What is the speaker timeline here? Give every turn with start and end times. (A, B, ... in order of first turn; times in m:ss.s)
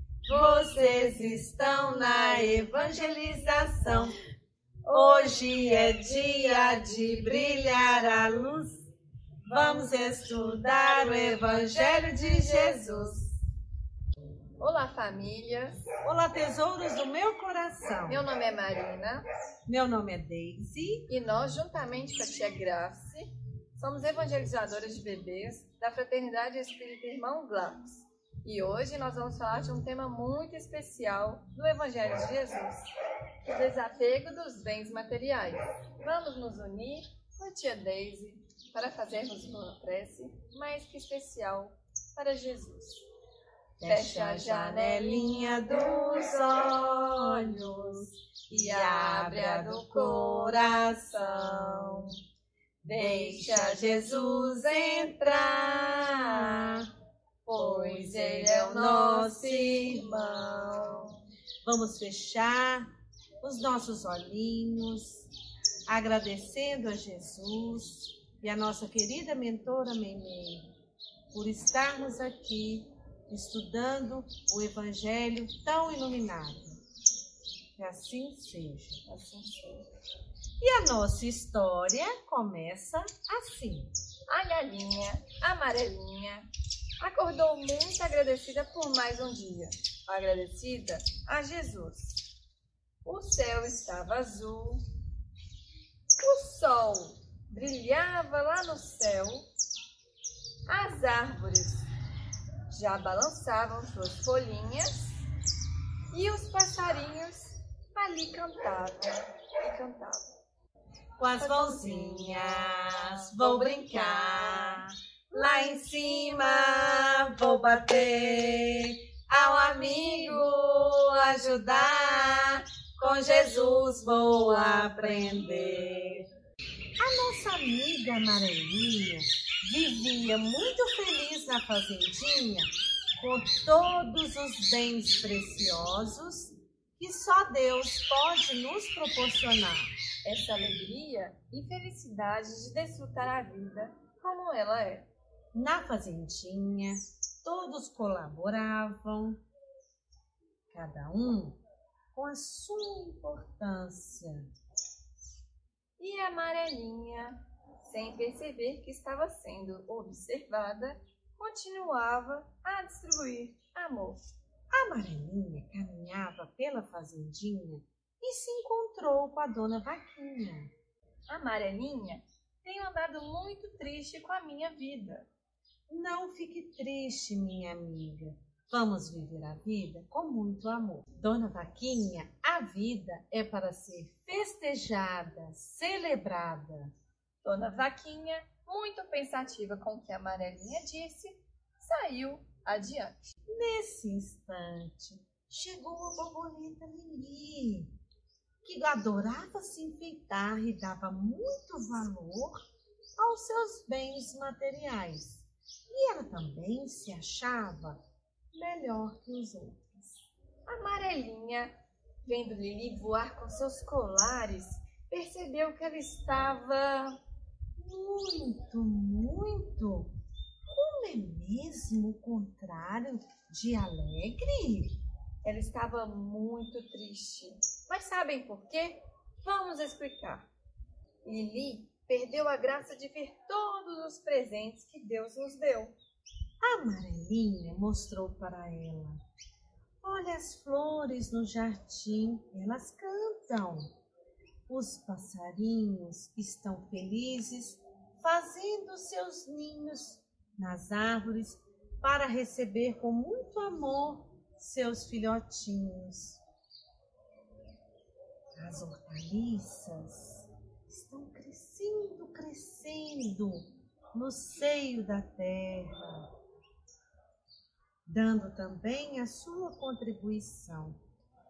0:00.2-0:04.2 A
0:00.4-0:01.2 B
0:02.0-0:02.6 B
0:04.9-0:07.3 B
0:04.9-0:08.9 A
0:09.4-0:13.1 A
0:10.7-0:13.4 B
0:14.6-0:15.8 B
0:16.0-0:18.2 A
0:18.0-0:19.2 B
0:19.6-0:21.1 A
0:21.1-0:32.9 B
0:33.4-0:43.0 B
0:43.8-0:52.1 A
0:43.8-0:52.1 B
0:52.8-0:56.9 A
0:52.8-0:56.8 B
0:57.4-1:01.2 B
0:57.5-1:00.8 A
1:01.6-1:05.3 A
1:05.9-1:10.7 A
1:11.3-1:16.8 A
1:17.7-1:19.0 A
1:19.0-1:19.8 B
1:20.6-1:23.9 A
1:24.3-1:26.5 B
1:27.0-1:32.2 B
1:33.0-1:34.8 B
1:36.2-1:39.4 B
1:40.6-1:41.9 B
1:42.7-1:45.2 B
1:46.1-1:50.3 B
1:51.2-2:06.3 A
1:51.4-1:54.8 B
1:59.6-2:00.5 B
2:07.0-2:19.9 A
2:20.2-2:25.1 B
2:25.5-2:29.4 A
2:30.7-2:31.6 A
2:32.1-2:34.5 A
2:36.0-2:44.2 B
2:44.7-2:50.7 A
2:51.3-2:55.3 B
2:55.9-3:06.9 A
3:07.4-3:13.2 B
3:13.5-3:17.9 A
3:18.6-3:22.7 A
3:23.2-3:28.0 A
3:28.5-3:30.2 A
3:30.6-3:37.2 B
3:37.8-3:40.1 A
3:40.7-3:45.0 A
3:45.4-3:50.5 B
3:51.2-3:56.0 B
3:56.6-3:59.2 A
4:00.0-4:03.9 A
4:04.7-4:16.4 A
4:18.6-4:26.3 A
4:28.0-4:31.0 A